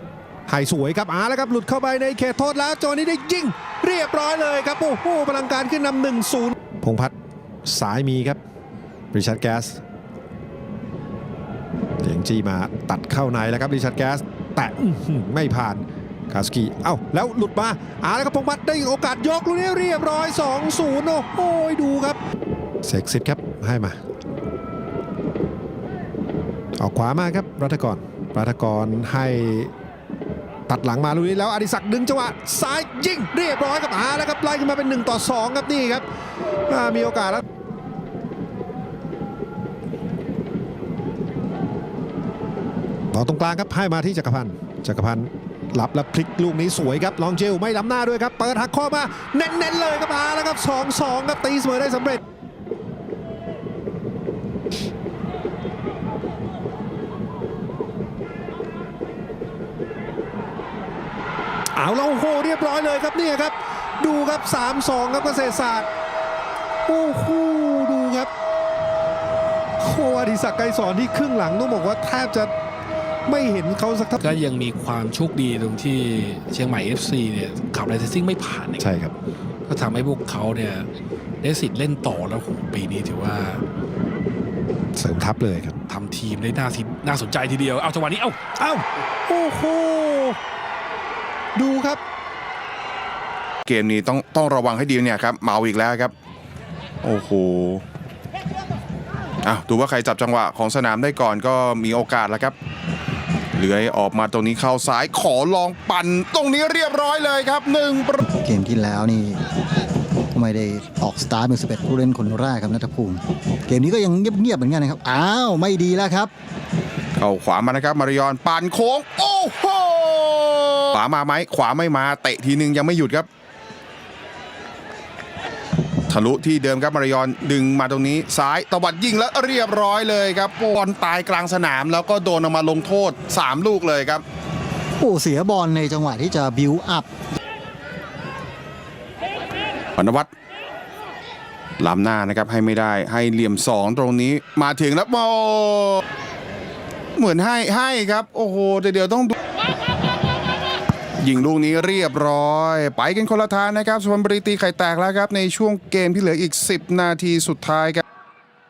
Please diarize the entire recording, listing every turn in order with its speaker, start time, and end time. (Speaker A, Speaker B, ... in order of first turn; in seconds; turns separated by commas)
Speaker A: 0.5-7.1, Speaker A: 7.6-8.4, Speaker A: 9.1-9.8, Speaker A: 12.0-22.2, Speaker A: 22.8-24.0, Speaker A: 26.8-29.7, Speaker A: 30.7-36.0, Speaker A: 36.7-37.4, Speaker A: 43.1-52.2, Speaker A: 61.8-65.9, Speaker A: 66.9-68.3, Speaker A: 69.8-72.5, Speaker A: 73.3-74.2, Speaker B: 74.3-78.8, Speaker A: 78.8-79.1, Speaker B: 79.7-80.9, Speaker B: 81.4-83.6, Speaker A: 85.0-85.8, Speaker B: 85.9-88.4, Speaker A: 88.6-90.4, Speaker A: 91.5-92.0, Speaker C: 93.7-96.1, Speaker C: 97.0-97.8, Speaker C: 99.4-102.5, Speaker C: 103.5-108.2, Speaker D: 108.2-109.4, Speaker D: 110.3-116.3, Speaker C: 117.2-123.3, Speaker C: 126.1-134.2, Speaker D: 135.0-137.1, Speaker C: 140.0-140.3, Speaker C: 141.8-146.0, Speaker C: 147.2-149.3, Speaker C: 151.2-158.0